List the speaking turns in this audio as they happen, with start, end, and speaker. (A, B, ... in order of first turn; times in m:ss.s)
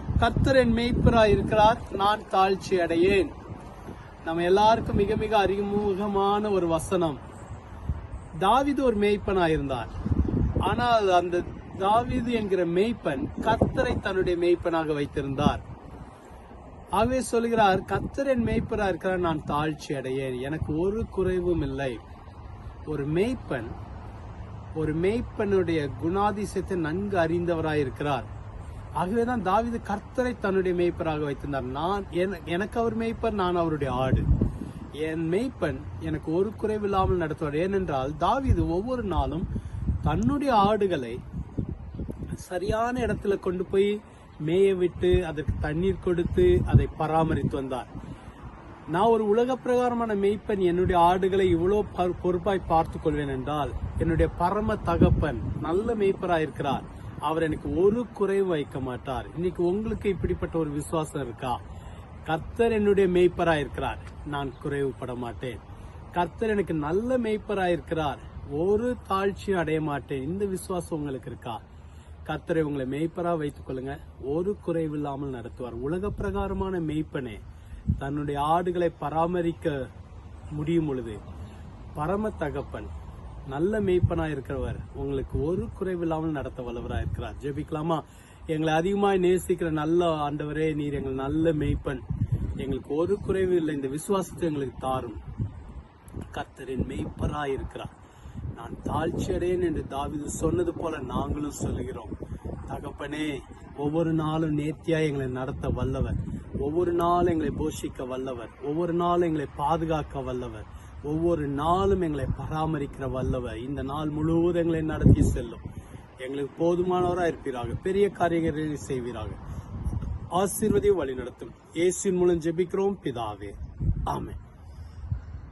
0:00.2-0:03.3 A
0:04.2-0:07.2 A
0:08.4-0:09.9 A
0:10.6-0:15.6 A
0:17.0-0:22.0 A
0:22.9-0:23.7 A
0:24.8-0:28.3 A
0:29.0-0:34.2 A
0:35.0-0:39.5 A
0:40.0-0:41.2 A
0:42.3-0:47.9 A
0:48.9-1:01.6 A
1:02.2-1:05.6 A
1:06.1-1:11.6 A
1:12.2-1:17.4 A
1:18.0-1:19.9 A
1:20.5-1:21.2 A
1:22.0-1:22.9 A
1:23.5-1:32.0 A
1:32.6-1:35.2 A
1:36.3-1:37.9 A
1:38.6-1:42.1 A
1:42.7-1:55.6 A
1:56.2-1:59.4 A
2:00.3-2:03.5 A
2:04.0-2:04.4 A